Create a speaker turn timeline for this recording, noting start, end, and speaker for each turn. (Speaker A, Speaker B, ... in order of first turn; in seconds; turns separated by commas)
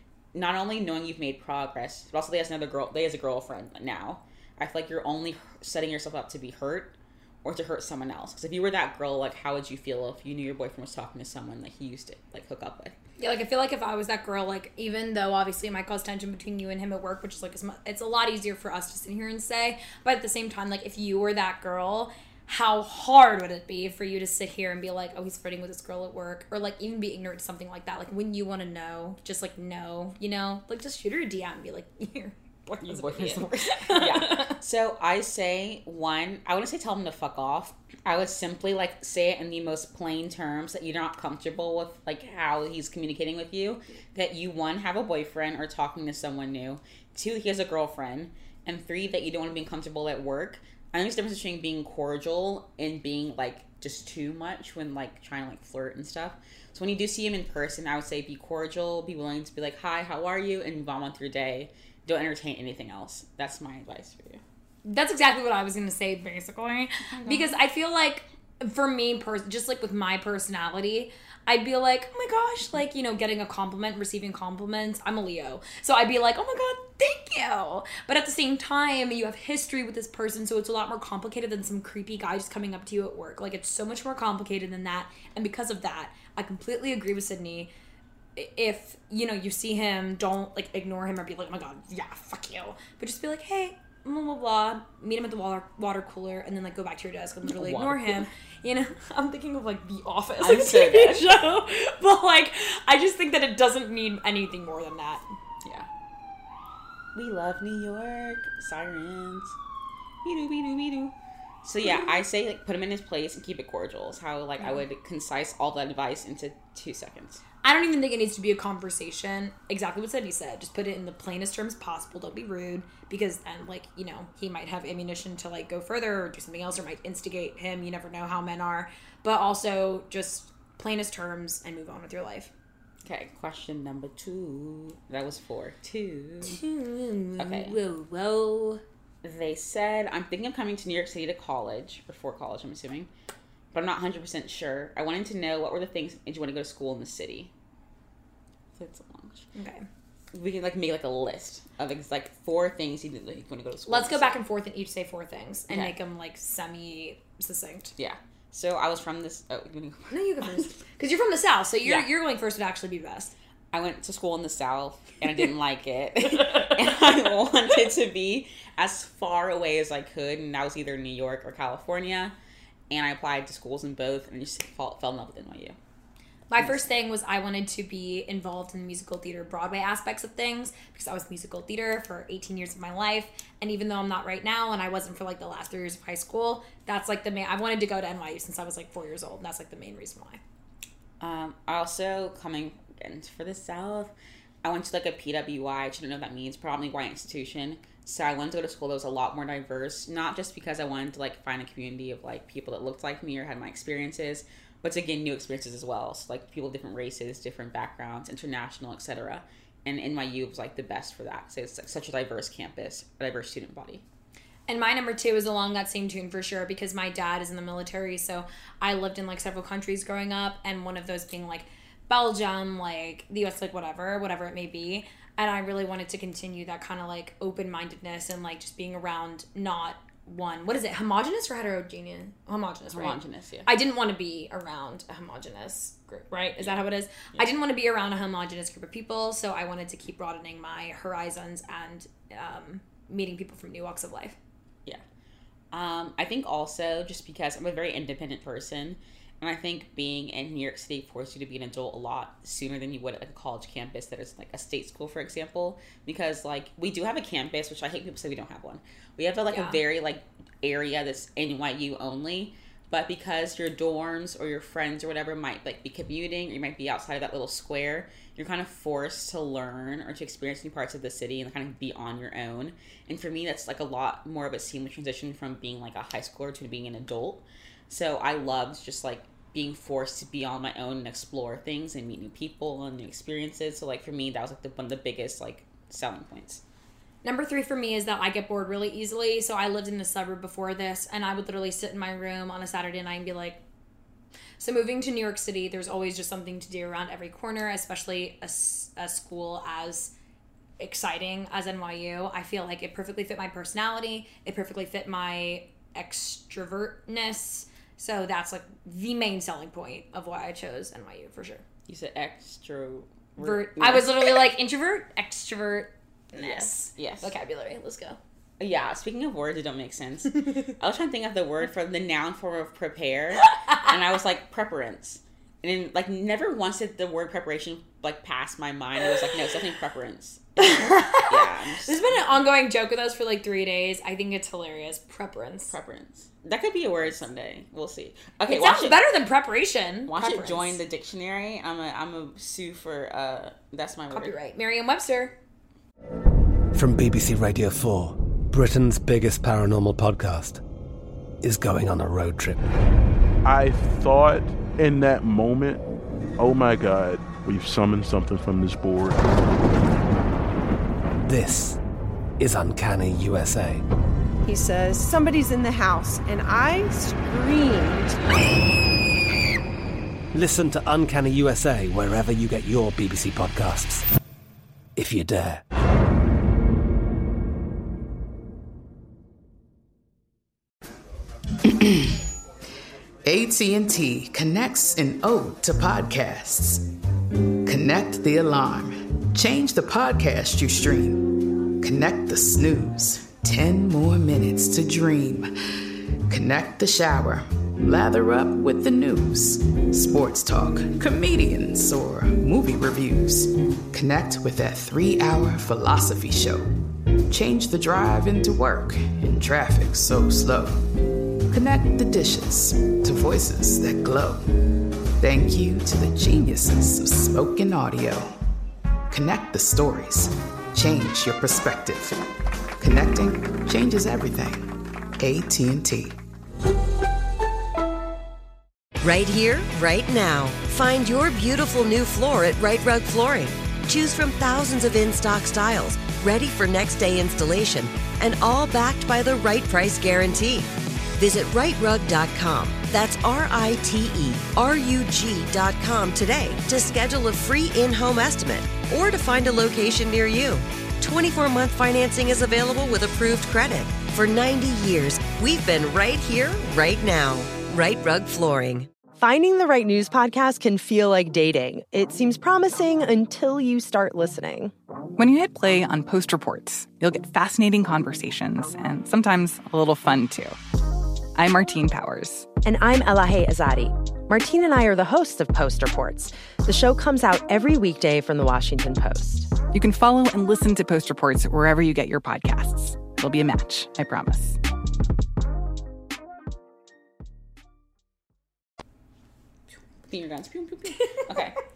Speaker A: 0.3-13.0, Speaker B: 13.2-34.5, Speaker A: 32.8-64.4, Speaker B: 64.8-87.7, Speaker A: 67.1-67.6, Speaker B: 88.4-105.2, Speaker A: 97.5-98.3, Speaker A: 100.4-101.3, Speaker A: 105.6-105.9, Speaker A: 107.2-109.6, Speaker A: 110.2-117.4, Speaker B: 117.6-132.5, Speaker A: 133.1-136.6, Speaker B: 136.4-138.8, Speaker A: 137.4-137.8, Speaker A: 139.2-143.1, Speaker A: 143.7-147.5, Speaker A: 148.8-149.5, Speaker B: 149.5-149.9, Speaker A: 150.3-154.4, Speaker B: 153.9-157.9, Speaker A: 155.7-155.9, Speaker A: 158.0-160.7, Speaker B: 160.1-163.3, Speaker A: 163.7-172.3, Speaker A: 172.9-175.8, Speaker B: 176.5-190.4, Speaker A: 176.6-176.9, Speaker A: 191.2-214.0, Speaker B: 214.7-244.4, Speaker A: 232.9-233.7, Speaker A: 245.7-286.6, Speaker B: 259.5-259.8, Speaker B: 287.2-293.6, Speaker B: 294.6-300.1, Speaker B: 300.8-311.6, Speaker A: 311.9-314.3, Speaker B: 313.4-318.2, Speaker A: 316.4-317.3, Speaker A: 318.6-332.3, Speaker B: 323.4-323.9, Speaker B: 330.6-335.8, Speaker A: 335.7-339.0, Speaker B: 338.5-340.8, Speaker A: 340.1-344.4, Speaker B: 344.1-345.4, Speaker C: 346.7-350.6, Speaker C: 351.4-352.7, Speaker D: 353.4-355.8, Speaker D: 356.4-359.2, Speaker C: 361.3-361.8, Speaker C: 362.4-363.8, Speaker E: 364.4-368.2, Speaker C: 370.3-374.1, Speaker C: 375.0-375.6, Speaker F: 381.6-382.2, Speaker F: 383.2-386.9, Speaker F: 387.6-406.8, Speaker F: 407.3-410.9, Speaker F: 411.5-414.5, Speaker F: 415.2-418.4, Speaker F: 419.1-422.2, Speaker F: 422.8-426.2, Speaker G: 429.0-458.9, Speaker H: 459.2-464.7, Speaker I: 465.2-470.6, Speaker I: 471.4-472.5, Speaker H: 472.6-479.5, Speaker I: 479.7-484.6, Speaker A: 490.1-491.6